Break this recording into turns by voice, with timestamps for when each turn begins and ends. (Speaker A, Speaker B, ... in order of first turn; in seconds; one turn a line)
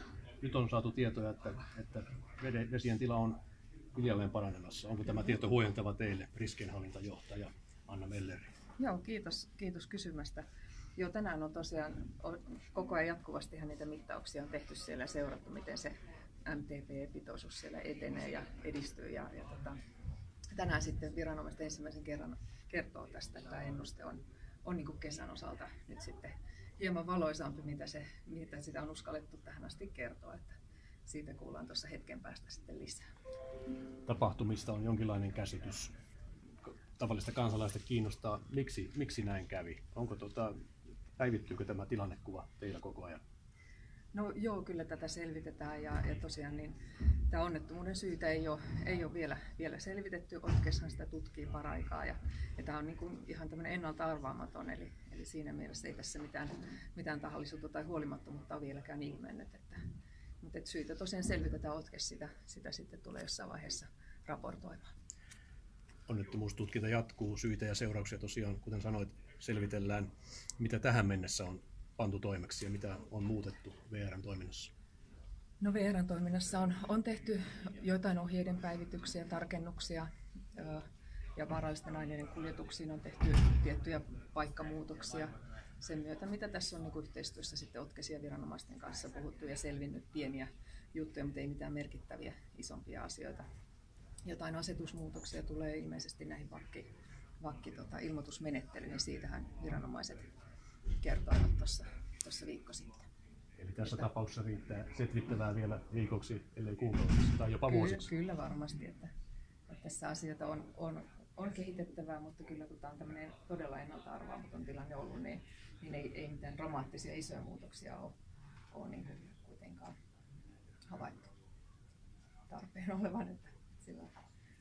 Speaker A: 0.4-3.4
Speaker A: 4.0-8.5
Speaker B: 8.8-10.4
Speaker B: 11.0-15.9
Speaker B: 16.5-19.8
Speaker B: 20.5-30.6
Speaker B: 31.1-33.0
Speaker A: 34.1-35.9
Speaker A: 36.7-40.6
Speaker A: 41.2-43.2
Speaker B: 44.1-46.8
Speaker B: 47.3-59.8
Speaker B: 60.4-64.9
Speaker A: 66.1-74.7
Speaker B: 75.6-80.8
Speaker B: 81.4-93.5
Speaker B: 94.2-96.9
Speaker B: 97.4-100.3
Speaker B: 101.0-103.0
Speaker A: 103.6-108.1
Speaker B: 103.8-104.1
Speaker B: 107.7-109.1
Speaker B: 109.7-118.1
Speaker B: 118.7-120.0
Speaker B: 120.9-121.3
Speaker B: 122.5-124.1